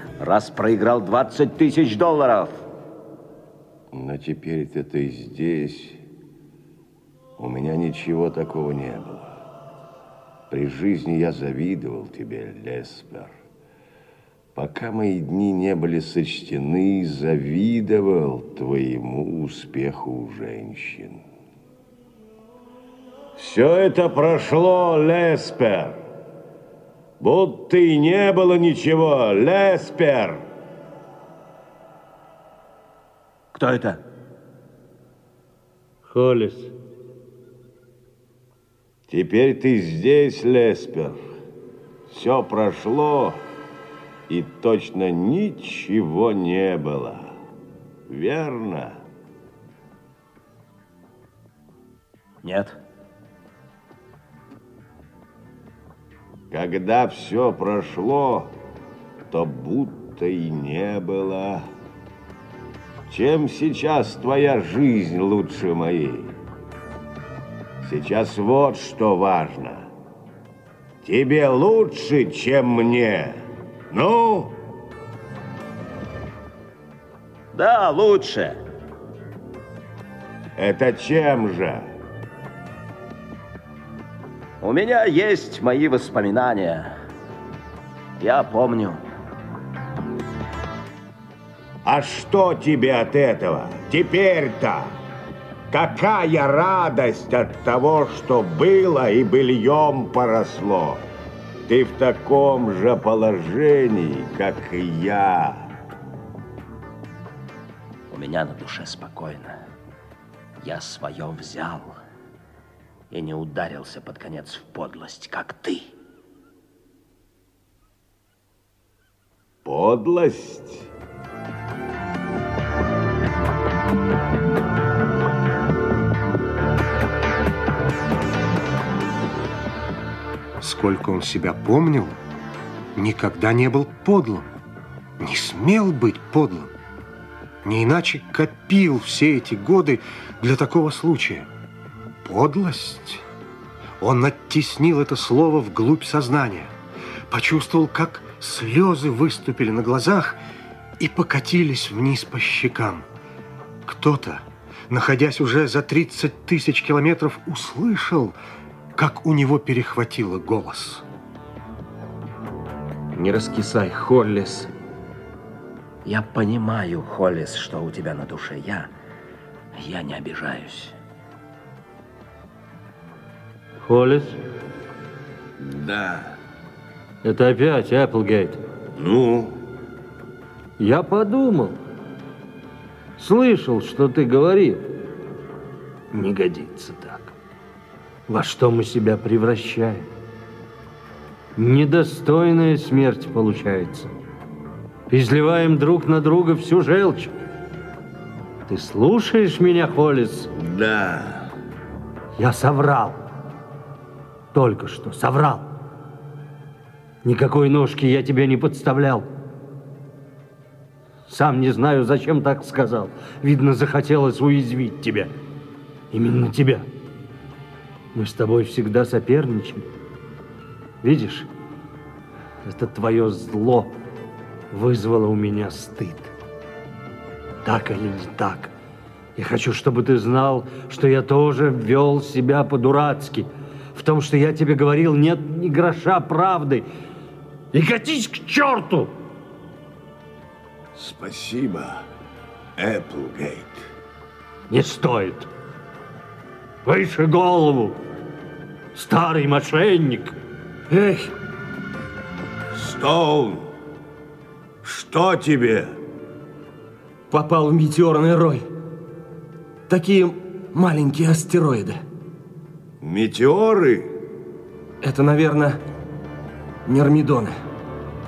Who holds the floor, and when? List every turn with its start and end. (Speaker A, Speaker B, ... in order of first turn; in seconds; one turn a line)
Speaker A: 0.2-2.6
Speaker B: 3.9-6.0
Speaker B: 7.4-9.4
Speaker B: 10.5-13.3
Speaker B: 14.5-21.2
Speaker B: 23.4-26.0
Speaker B: 27.2-30.4
Speaker A: 33.5-34.0
Speaker C: 36.0-36.7
Speaker B: 39.1-41.2
Speaker B: 42.1-43.4
Speaker B: 44.3-47.4
Speaker B: 48.1-49.0
Speaker A: 52.4-52.8
Speaker B: 56.5-58.5
Speaker B: 59.3-61.7
Speaker B: 63.1-66.3
Speaker B: 67.8-69.9
Speaker B: 71.0-74.5
Speaker A: 77.5-78.6
Speaker B: 80.6-81.9
Speaker A: 84.6-87.0
Speaker A: 88.2-89.0
Speaker B: 91.8-95.0
Speaker B: 95.7-101.0
Speaker B: 101.7-105.7
Speaker A: 108.1-109.6
Speaker A: 110.6-112.0
Speaker A: 113.1-115.9
Speaker B: 119.6-120.9
Speaker D: 130.6-132.2
Speaker D: 132.9-134.5
Speaker D: 135.2-136.7
Speaker D: 137.6-141.5
Speaker D: 142.2-143.2
Speaker D: 144.0-146.7
Speaker D: 147.3-150.4
Speaker D: 151.0-153.1
Speaker D: 153.8-158.4
Speaker D: 158.9-161.0
Speaker E: 163.1-164.7
Speaker A: 166.0-168.9
Speaker A: 169.7-170.9
Speaker C: 173.8-174.4
Speaker B: 175.6-176.4
Speaker C: 177.2-178.6
Speaker B: 179.0-179.6
Speaker C: 180.8-181.8
Speaker C: 183.2-184.8
Speaker C: 186.1-187.3
Speaker C: 188.3-190.1
Speaker C: 191.6-194.1
Speaker C: 195.1-197.3
Speaker C: 198.7-200.5
Speaker B: 200.5-201.5
Speaker C: 202.4-203.2
Speaker C: 204.5-205.7
Speaker C: 207.2-209.3
Speaker C: 211.3-215.3
Speaker C: 216.1-216.9
Speaker C: 218.1-219.8
Speaker C: 221.0-221.5
Speaker C: 222.6-223.9
Speaker C: 224.7-226.3
Speaker C: 227.6-228.7
Speaker C: 229.3-236.9
Speaker C: 237.7-239.1
Speaker B: 240.9-242.1
Speaker B: 242.8-243.8
Speaker C: 244.7-245.5
Speaker C: 246.8-248.0
Speaker C: 248.9-250.3
Speaker E: 250.9-251.3
Speaker B: 252.7-253.7
Speaker B: 254.8-256.0
Speaker E: 257.3-258.7
Speaker E: 259.9-262.0
Speaker B: 263.0-264.1
Speaker E: 265.0-265.8
Speaker E: 266.9-267.6